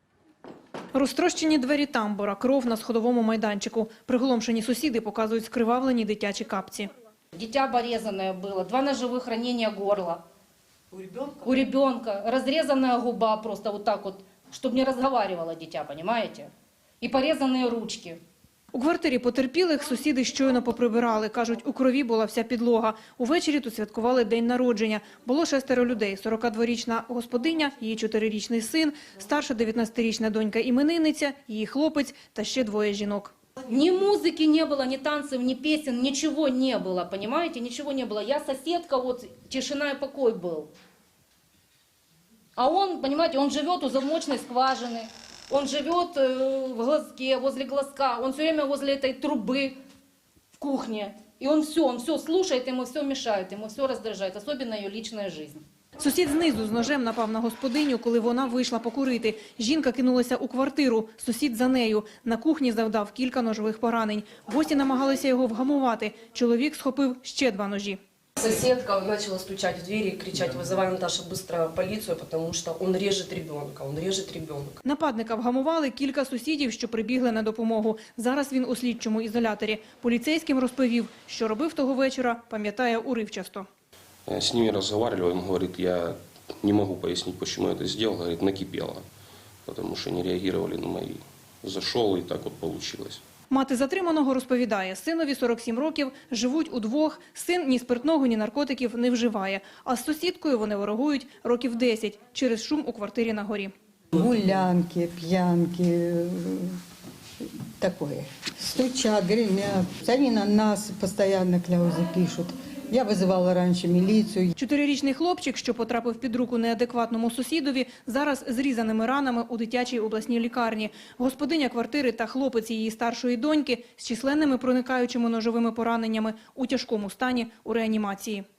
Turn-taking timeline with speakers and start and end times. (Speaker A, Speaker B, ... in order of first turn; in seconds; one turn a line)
Speaker A: 0.9-6.9
Speaker B: 7.3-10.2
Speaker B: 11.3-16.5
Speaker B: 17.0-18.2
Speaker A: 18.7-33.3
Speaker B: 33.7-40.7
Speaker B: 42.6-49.8
Speaker B: 50.6-55.6
Speaker A: 56.0-68.0
Speaker C: 68.4-74.8
Speaker A: 74.8-83.7
Speaker D: 84.3-89.0
Speaker D: 89.7-93.2
Speaker A: 93.5-103.7
Speaker E: 104.1-106.8
Speaker E: 107.8-114.5
Speaker A: 114.5-128.4